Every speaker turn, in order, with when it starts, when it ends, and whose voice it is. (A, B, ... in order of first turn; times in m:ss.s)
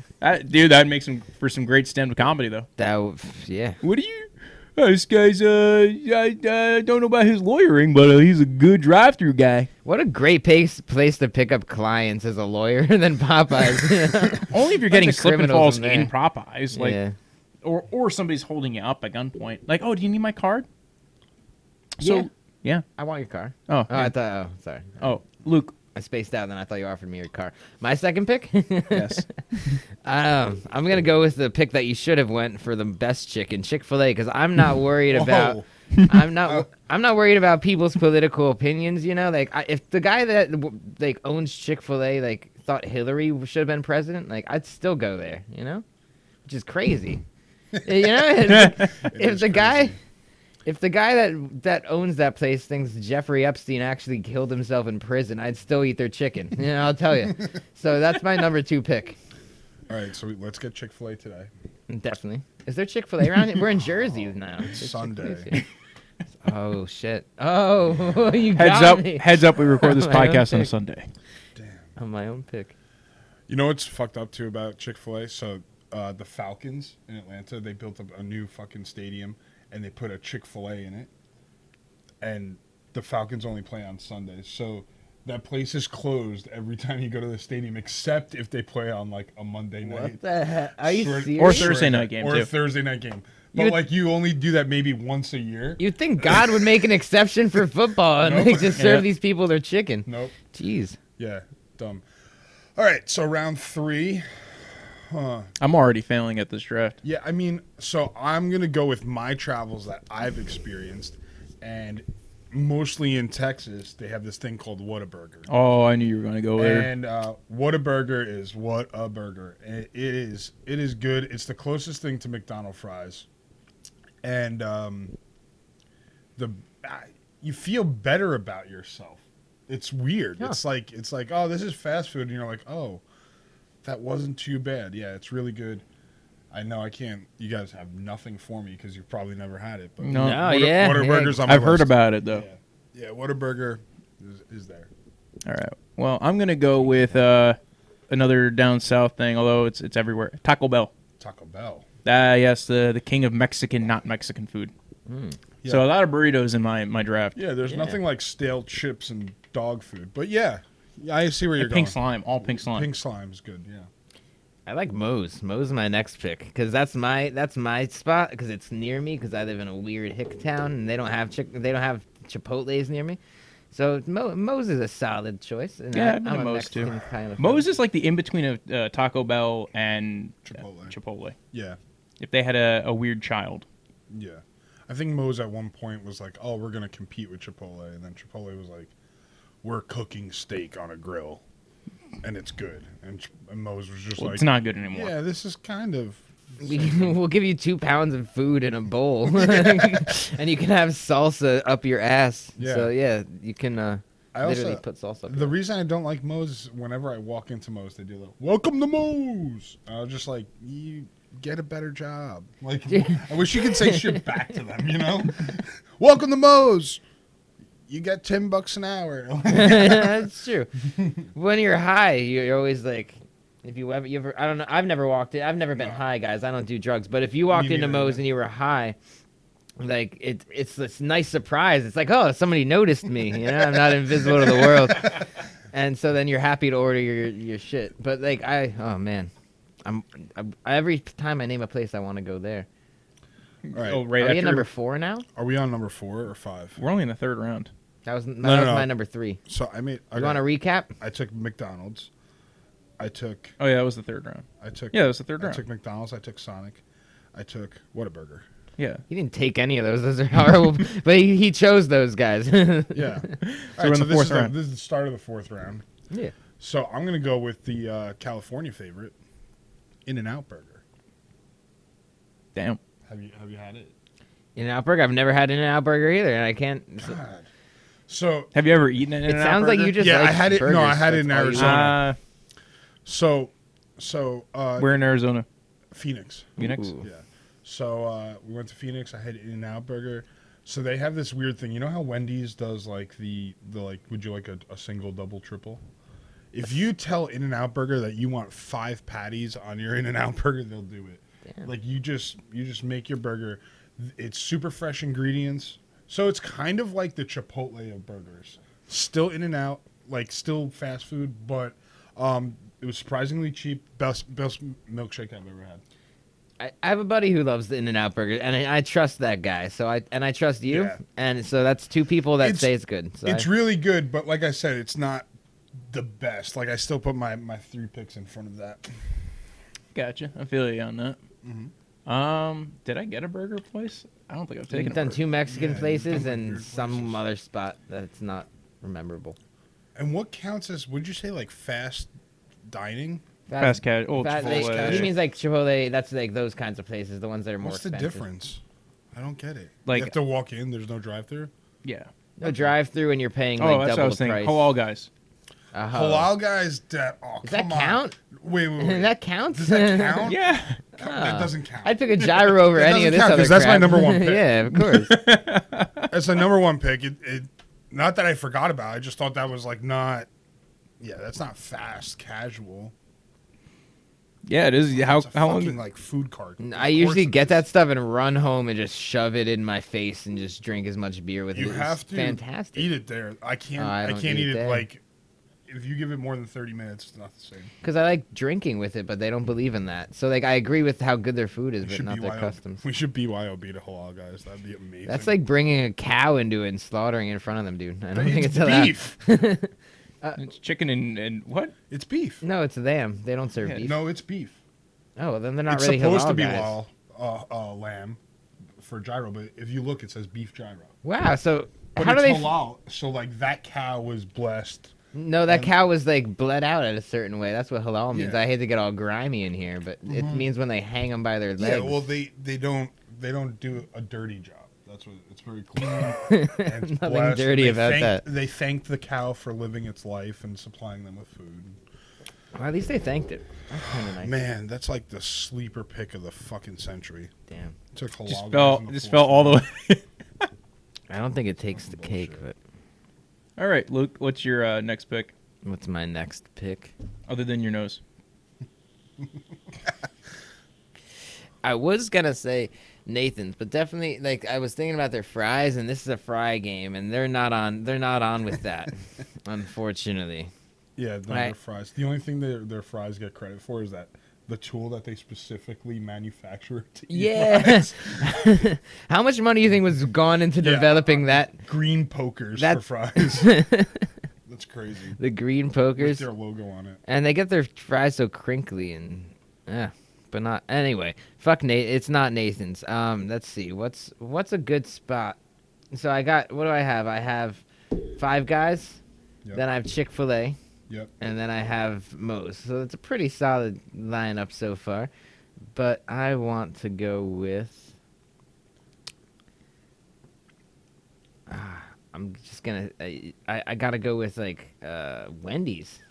0:00.2-0:02.7 A
0:02.8-0:03.8 B
0:03.8-0:09.7 A
0:09.8-0:16.1 B
0:14.4-0:17.0 A
0:16.7-0:17.1 B
0:17.6-0:20.6 A
0:22.0-0:22.8 A
0:22.0-0:22.3 B
0:23.0-0:25.0 B
0:23.7-0:24.1 A
0:25.0-0:25.7 A
0:26.0-0:45.8 B
0:28.9-0:29.8 A
0:35.1-0:35.6 C
0:35.9-0:36.2 A
0:46.4-0:47.2 B
0:47.8-0:48.1 C
0:47.8-0:50.0 B
0:48.5-0:48.9 A
0:49.0-0:50.0 C
0:50.6-0:59.2 B
0:59.9-1:01.5 C
1:01.9-1:05.6 B
1:04.6-1:05.5 C
1:06.4-1:10.7 B
1:08.6-1:11.1 A
1:11.6-1:11.9 C
1:12.0-1:12.7 B
1:13.5-1:21.1 C
1:22.2-1:30.2 C
1:29.8-1:31.8 B
1:30.8-1:36.6 C
1:31.4-1:32.5 A
1:35.8-1:41.0 B
1:38.2-1:38.8 C
1:38.8-1:39.1 A
1:40.1-1:40.4 C
1:41.2-1:42.0 C
1:42.8-1:45.5 C
1:45.6-1:47.0 A
1:47.0-1:55.5 C
1:55.5-1:56.9 A
1:56.5-2:03.2 C
2:04.2-2:05.1 C
2:06.4-2:13.0 C
2:13.8-2:15.8 C
2:16.5-2:24.9 C
2:20.0-2:20.4 A
2:20.1-2:21.4 B
2:21.4-2:22.4 A
2:25.4-2:27.6 A
2:28.1-2:30.9 A
2:31.2-2:31.9 C
2:32.0-2:34.7 A
2:35.1-2:35.4 B
2:35.6-2:35.9 C
2:35.6-2:37.4 A
2:37.4-2:43.9 C
2:37.7-2:38.0 B
2:41.6-2:42.9 A
2:44.6-2:53.2 B
2:53.7-2:57.6 B
2:55.9-3:01.4 A
3:00.5-3:01.0 C
3:01.5-3:01.8 C
3:02.2-3:03.6 A
3:04.1-3:08.9 C
3:09.6-3:11.4 C
3:12.2-3:17.2 C
3:14.2-3:15.1 A
3:16.6-3:25.5 B
3:19.3-3:20.0 C
3:22.6-3:22.9 C
3:24.3-3:37.0 C
3:32.9-3:33.2 B
3:33.8-3:34.2 B
3:37.9-3:40.3 C
3:39.5-3:40.7 B
3:40.9-3:41.2 C
3:41.3-3:49.0 B
3:47.5-3:48.2 C
3:49.8-3:59.3 B
3:59.8-4:02.7 B
4:03.6-4:04.6 A
4:03.7-4:04.6 C
4:04.2-4:05.2 B
4:05.4-4:06.8 C
4:06.8-4:07.7 A
4:08.0-4:09.4 B
4:08.4-4:08.9 C
4:09.5-4:10.4 C
4:10.1-4:10.9 B
4:11.0-4:12.1 C
4:13.0-4:13.5 C
4:13.6-4:15.6 A
4:14.6-4:16.8 C
4:17.3-4:18.4 C
4:18.8-4:19.0 A
4:19.1-4:23.2 B
4:22.9-4:25.8 C
4:23.4-4:24.5 A
4:26.6-4:29.1 C
4:30.1-4:30.8 C
4:33.1-4:33.9 C
4:34.6-4:37.2 B
4:37.0-4:37.5 C
4:38.1-4:38.5 C
4:38.5-4:39.9 A
4:39.3-4:42.0 B
4:40.0-4:42.0 C
4:41.6-4:42.2 A
4:43.0-4:44.9 C
4:44.8-4:45.5 A
4:45.9-4:55.8 C
4:46.6-4:47.0 A
4:46.6-4:47.0 B
4:56.5-5:15.8 C
5:16.6-5:23.5 B
5:20.7-5:21.0 C
5:22.4-5:22.7 C
5:23.2-5:25.3 C
5:25.8-5:29.0 C
5:30.0-5:31.2 A
5:31.4-5:31.7 C
5:32.1-5:35.2 A
5:34.7-5:39.4 B
5:35.5-5:37.2 C
5:40.0-5:42.1 C
5:42.7-5:43.2 C
5:43.5-5:48.2 B
5:43.6-5:45.1 A
5:44.2-5:45.2 C
5:47.6-5:48.6 C
5:49.1-5:51.5 C
5:49.9-5:50.1 A
5:51.8-5:52.1 A
5:52.4-5:54.6 B
5:52.4-5:52.7 C
5:53.6-5:55.1 A
5:55.7-5:56.3 B
5:55.9-6:00.4 C
5:57.4-5:58.2 B
5:58.8-6:00.4 B
6:00.2-6:00.8 A
6:01.0-6:04.6 C
6:01.0-6:05.1 B
6:04.8-6:06.1 A
6:06.1-6:10.3 C
6:11.0-6:12.9 C
6:14.5-6:15.8 A
6:14.9-6:17.6 C
6:16.6-6:22.9 B
6:21.5-6:25.0 C
6:23.8-6:24.8 B
6:25.7-6:27.7 C
6:27.8-6:32.8 B
6:31.8-6:35.3 C
6:35.1-6:39.7 B
6:38.1-6:39.2 C
6:40.4-6:41.7 A
6:41.9-6:42.4 C
6:42.4-6:44.0 B
6:43.8-6:44.6 C
6:45.2-6:46.8 B
6:45.7-6:48.2 C
6:48.8-6:51.0 C
6:51.0-6:52.6 B
6:52.0-6:54.9 C
6:55.1-7:02.0 B
6:55.5-6:55.7 C
6:58.1-6:58.4 C
7:00.1-7:00.5 C
7:01.6-7:11.8 C
7:06.1-7:08.2 B
7:12.5-7:14.4 B
7:13.9-7:17.3 C
7:17.5-7:17.8 B
7:17.9-7:19.6 C
7:18.3-7:20.4 A
7:21.1-7:22.6 B
7:21.7-7:22.4 C
7:23.6-7:25.3 A
7:25.6-7:26.9 B
7:27.3-7:28.0 A
7:31.6-7:40.5 B
7:41.0-7:48.6 C
7:41.3-7:41.5 B
7:47.1-7:51.6 B
7:50.6-7:53.6 C
7:52.6-7:54.1 B
7:54.5-7:55.2 C
7:55.2-7:56.2 B
7:56.0-7:57.0 C
7:57.0-8:05.4 B
8:05.9-8:09.0 B
8:09.5-8:10.6 B
8:11.2-8:15.1 B
8:15.7-8:17.9 B
8:21.5-8:26.0 B